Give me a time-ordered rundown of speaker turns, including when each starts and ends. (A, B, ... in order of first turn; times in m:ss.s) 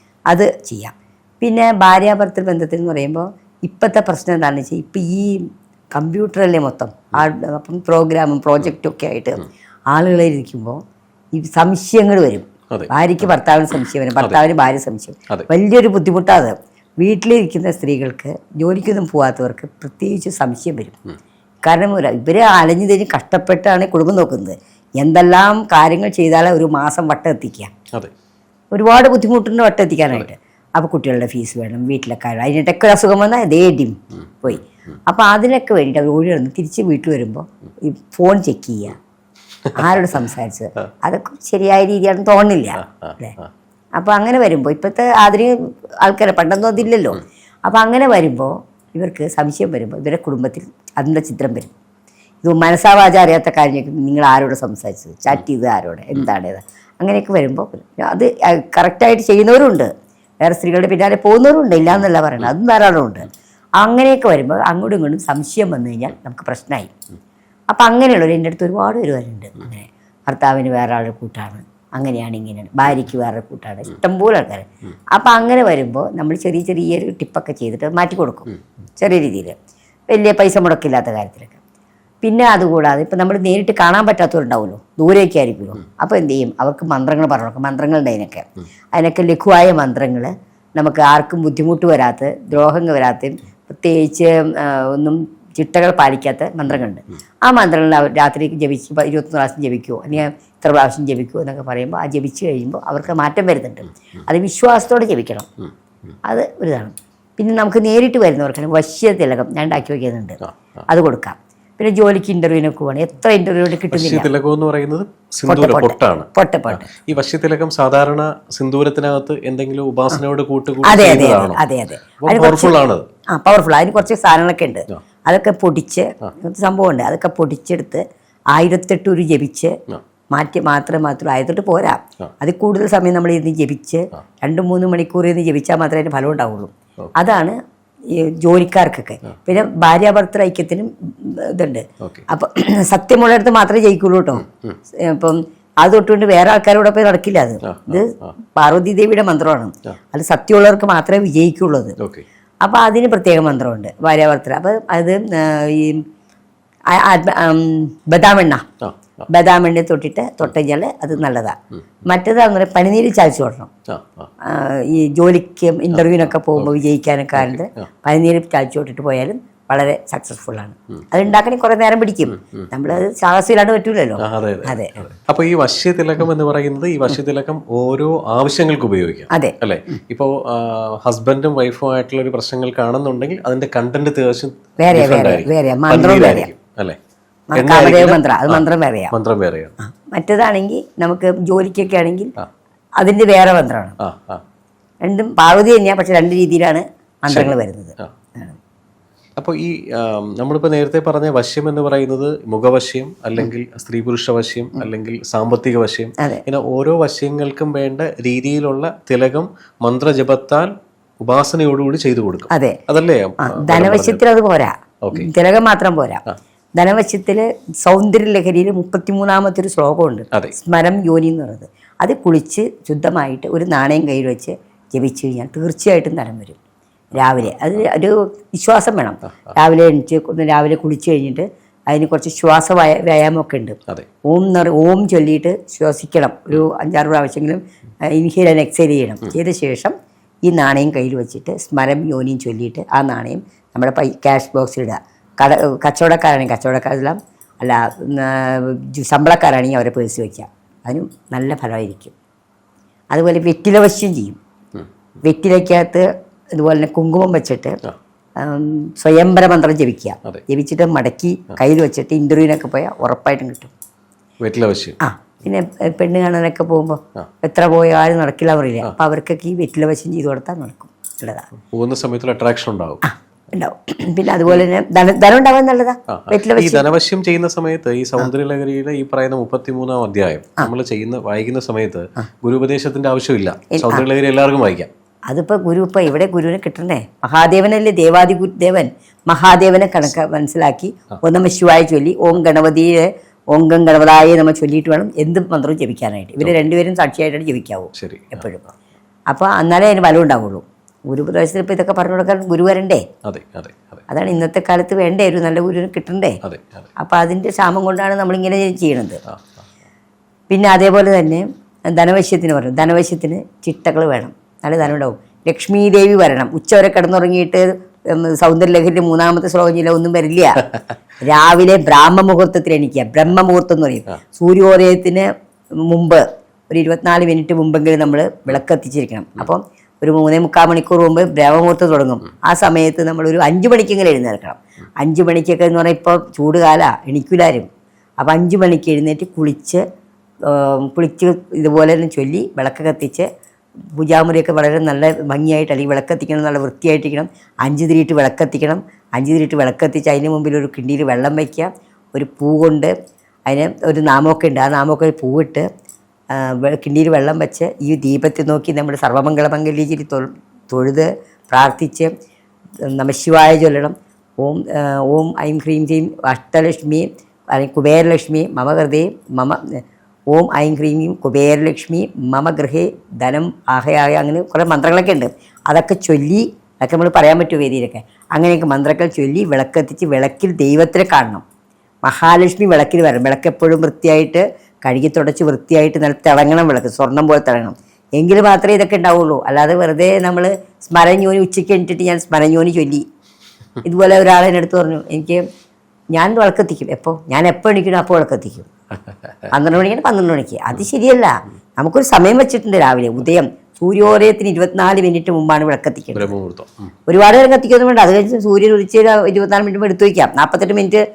0:00.3-0:10.8 A
0:11.3-0:21.0 A
0:12.7-0:13.3 B
0:21.6-0:27.7 A
0:28.7-0:39.0 A
0:39.6-0:39.9 B
0:39.7-0:43.4 A
0:42.8-0:43.5 B
0:44.0-0:51.7 A
0:52.4-0:59.9 A
1:00.4-1:06.9 A
1:07.7-1:19.6 A
1:20.1-1:21.6 A
1:22.2-1:45.5 A
1:46.2-1:54.3 A
1:53.9-2:01.6 B
1:55.5-1:56.9 A
2:00.8-2:02.8 A
2:02.2-2:03.0 B
2:03.3-2:09.7 A
2:10.3-2:17.6 A
2:18.1-2:32.0 A
2:24.4-2:24.8 B
2:27.6-2:28.3 B
2:32.0-2:32.2 B
2:32.6-2:36.0 A
2:36.9-2:38.6 A
2:38.8-2:39.2 B
2:39.3-2:43.7 A
2:43.9-2:44.3 B
2:44.4-2:55.0 A
2:47.4-2:47.9 B
2:52.4-2:52.7 B
2:54.2-3:07.0 B
2:59.3-2:59.6 A
3:04.8-3:06.5 A
3:07.5-3:09.1 A
3:07.5-3:09.7 B
3:09.8-3:12.3 A
3:13.0-3:14.0 A
3:14.0-3:14.4 B
3:15.0-3:18.6 A
3:17.3-3:18.1 B
3:19.4-3:34.2 B
3:26.2-3:26.4 A
3:32.5-3:32.8 A
3:33.4-3:36.2 A
3:35.0-3:35.3 B
3:36.8-3:46.6 A
3:47.1-3:59.9 A
4:00.5-4:12.1 A
4:13.1-4:14.4 A
4:15.2-4:17.8 A
4:18.4-4:23.7 A
4:24.4-4:25.0 B
4:25.0-4:31.5 A
4:31.7-4:33.0 B
4:33.0-4:36.8 A
4:36.1-4:44.9 B
4:43.7-4:44.0 A
4:45.3-4:58.6 A
4:58.0-4:58.4 B
4:59.3-5:03.0 A
5:03.2-5:04.0 B
5:04.1-5:06.4 A
5:06.4-5:06.9 B
5:07.0-5:09.2 A
5:10.5-5:20.7 A
5:21.2-5:25.3 A
5:25.8-5:37.7 A
5:38.2-5:39.8 A
5:40.4-5:43.3 A
5:43.9-5:52.9 A
5:53.5-5:55.6 A
5:56.3-6:02.1 A
6:02.8-6:21.4 A
6:22.0-6:33.0 A
6:33.8-6:35.4 A
6:36.1-6:38.7 A
6:39.5-6:46.3 A
6:46.1-6:46.9 B
6:47.1-6:51.0 A